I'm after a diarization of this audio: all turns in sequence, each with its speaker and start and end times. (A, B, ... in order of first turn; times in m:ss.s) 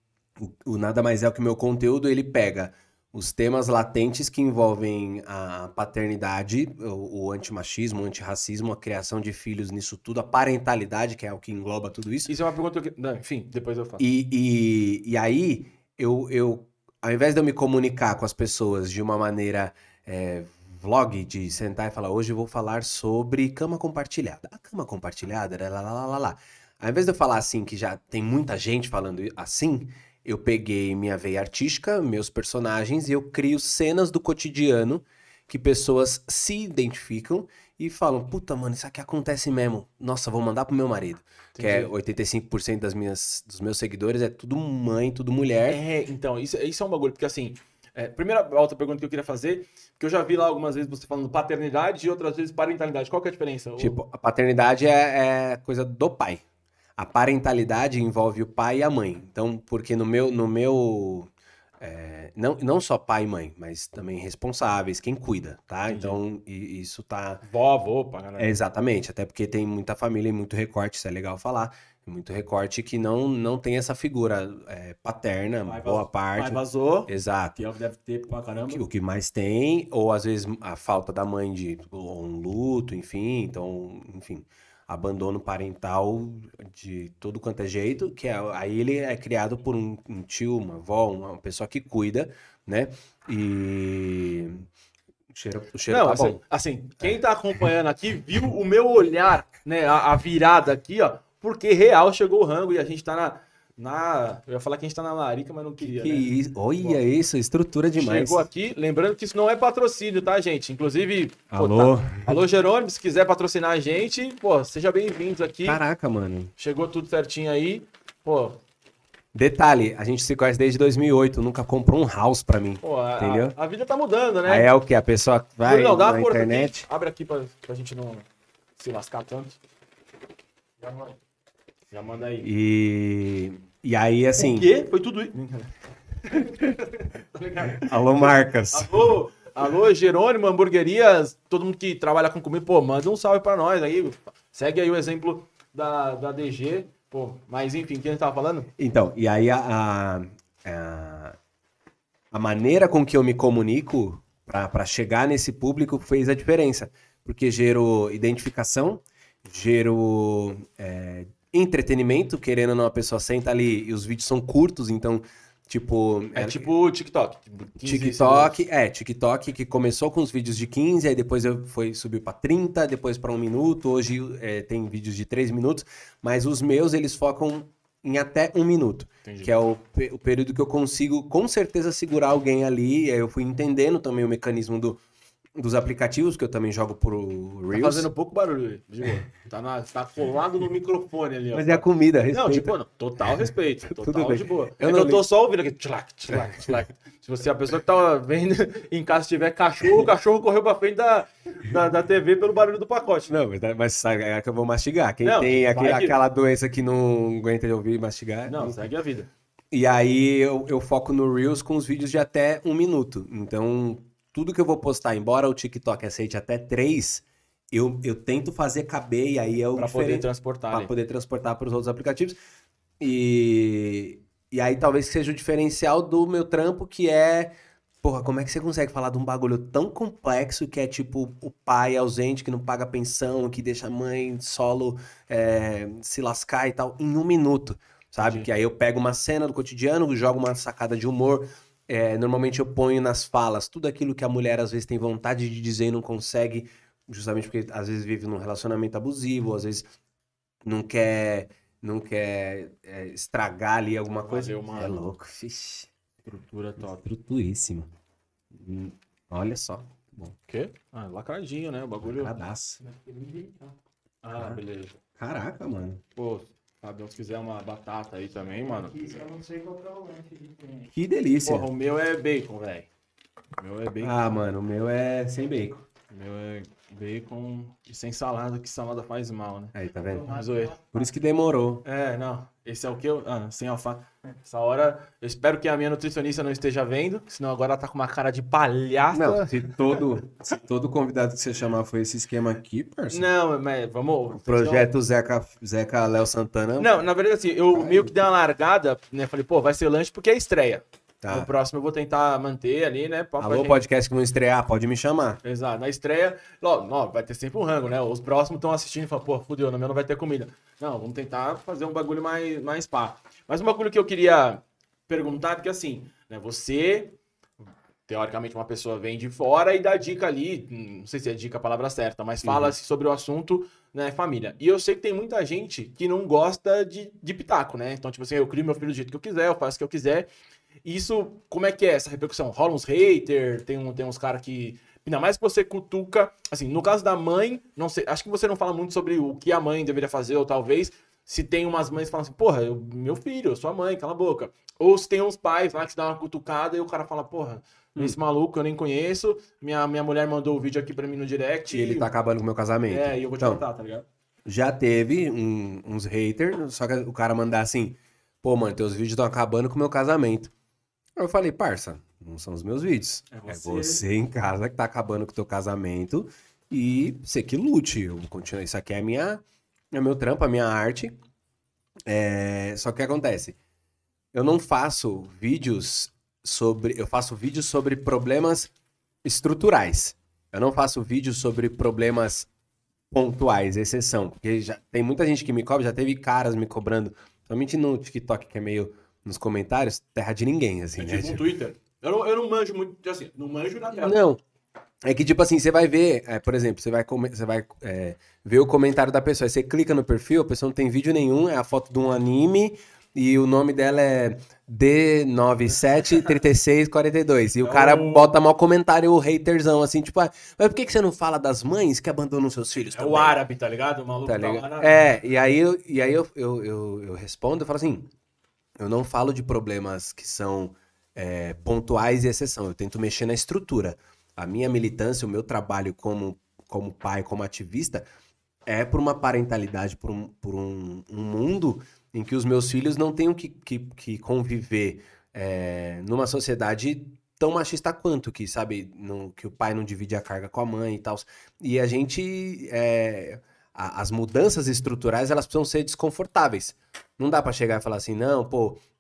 0:00.4-0:12.3 A
0:12.3-0:14.0 B
0:14.0-0:45.8 A
0:41.6-0:41.9 B
0:45.7-0:54.0 B
0:53.8-0:56.4 A
0:57.0-1:07.4 A
1:05.9-1:06.2 B
1:07.4-1:08.5 B
1:08.4-1:17.6 A
1:15.6-1:18.8 B
1:18.6-1:34.7 A
1:35.3-1:36.4 A
1:35.9-1:47.0 B
1:45.8-1:48.5 A
1:47.9-1:55.8 B
1:51.5-1:52.4 A
1:55.6-1:56.5 A
1:56.6-1:58.6 B
1:59.3-2:03.6 A
2:02.8-2:04.7 B
2:04.5-2:06.9 A
2:05.6-2:09.6 B
2:10.8-2:11.1 B
2:11.9-2:12.5 B
2:12.4-2:14.7 A
2:14.4-2:15.7 B
2:16.2-2:28.7 B
2:17.8-2:19.1 A
2:28.8-2:31.4 A
2:32.3-2:46.7 A
2:46.3-2:48.6 B
2:47.8-3:05.0 A
2:59.2-2:59.5 B
3:05.6-3:08.1 A
3:07.7-3:23.3 B
3:11.5-3:12.8 A
3:13.9-3:15.2 A
3:16.3-3:16.8 A
3:23.3-3:28.8 A
3:25.2-3:26.2 B
3:28.5-3:29.3 B
3:29.7-3:42.4 A
3:39.8-3:40.9 B
3:43.0-4:09.9 A
3:58.2-3:58.5 B
4:10.6-4:15.9 A
4:14.2-4:15.0 B
4:16.2-4:17.1 B
4:16.8-4:17.9 A
4:18.5-4:20.4 A
4:20.5-4:22.3 B
4:22.0-4:22.8 A
4:22.8-4:23.7 C
4:24.2-4:25.0 B
4:24.3-4:24.6 A
4:25.2-4:26.0 A
4:26.2-4:29.1 B
4:28.6-4:30.9 C
4:30.9-4:31.7 A
4:31.4-4:32.9 B
4:33.6-4:34.4 B
4:34.0-4:35.9 A
4:36.1-4:39.8 B
4:39.7-4:41.8 A
4:40.1-4:40.8 C
4:40.3-4:40.8 B
4:41.8-4:50.0 B
4:49.1-4:53.3 A
4:53.1-4:54.9 B
4:54.4-4:56.9 A
4:56.8-5:03.8 B
4:57.7-4:58.1 A
5:01.2-5:01.5 A
5:03.4-5:05.4 A
5:05.4-5:17.2 B
5:18.1-5:30.3 B
5:22.4-5:22.8 A
5:30.8-5:52.1 B
5:51.7-5:53.6 A
5:52.9-5:54.1 B
5:54.5-6:00.5 A
6:01.2-6:11.2 A
6:03.3-6:04.0 B
6:12.1-6:13.6 A
6:14.3-6:18.7 A
6:19.2-6:22.5 A
6:23.1-6:31.4 A
6:31.0-6:34.2 B
6:33.9-6:34.4 A
6:35.0-6:53.4 A
6:47.6-6:48.4 B
6:52.9-6:55.1 B
6:54.2-6:58.1 A
6:58.8-7:08.0 A
7:08.7-7:28.8 A